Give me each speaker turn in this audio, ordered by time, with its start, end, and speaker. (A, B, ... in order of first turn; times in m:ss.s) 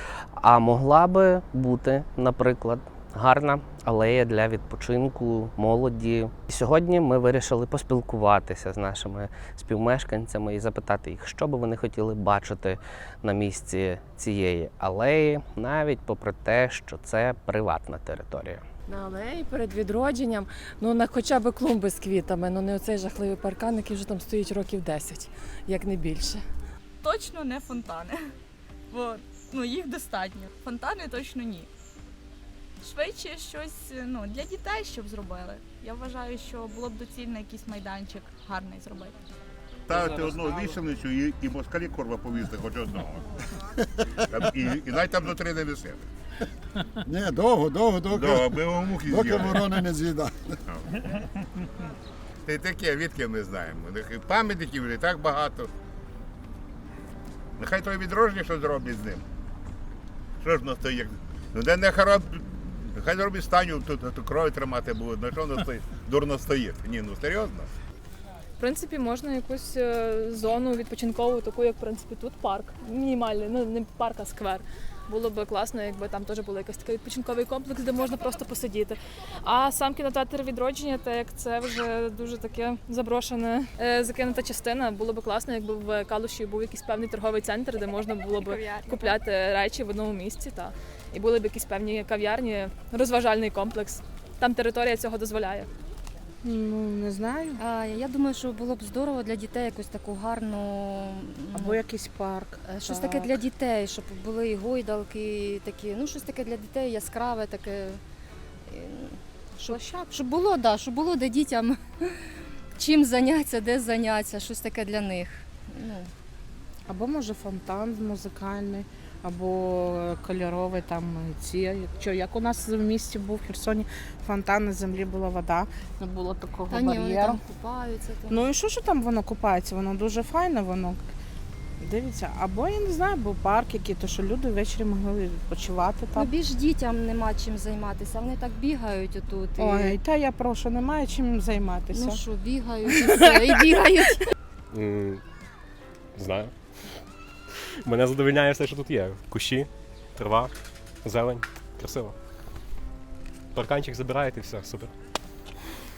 0:00.4-0:18.6 A
0:18.9-0:26.4 B
0:27.0-0:28.2 C
0:28.9-0:31.7 C
0:32.8-0:39.1 C
0:39.9-0:43.2 D
0:44.3-0:46.1 D
0:47.0-0:48.5 E
0:48.0-0:49.8 D
0:49.0-0:50.5 E
0:52.4-0:55.7 D
0:57.6-0:59.2 D
1:00.4-1:07.7 D
1:08.6-1:35.7 F
1:28.3-1:29.1 C
1:36.4-1:37.6 G
1:37.6-1:41.8 H
1:41.5-1:43.3 G
1:42.6-1:48.0 H
1:48.7-1:56.1 H
1:49.6-1:50.1 G
1:56.9-2:07.4 G
2:06.7-2:08.4 H
2:08.3-2:11.0 G
2:11.8-2:16.3 G
2:16.1-2:20.0 H
2:19.6-2:22.2 G
2:21.9-2:24.2 H
2:23.0-2:23.7 G
2:24.7-2:25.2 I
2:26.2-2:26.5 I
2:27.8-2:30.5 I
2:31.0-2:32.1 I
2:33.5-2:34.9 I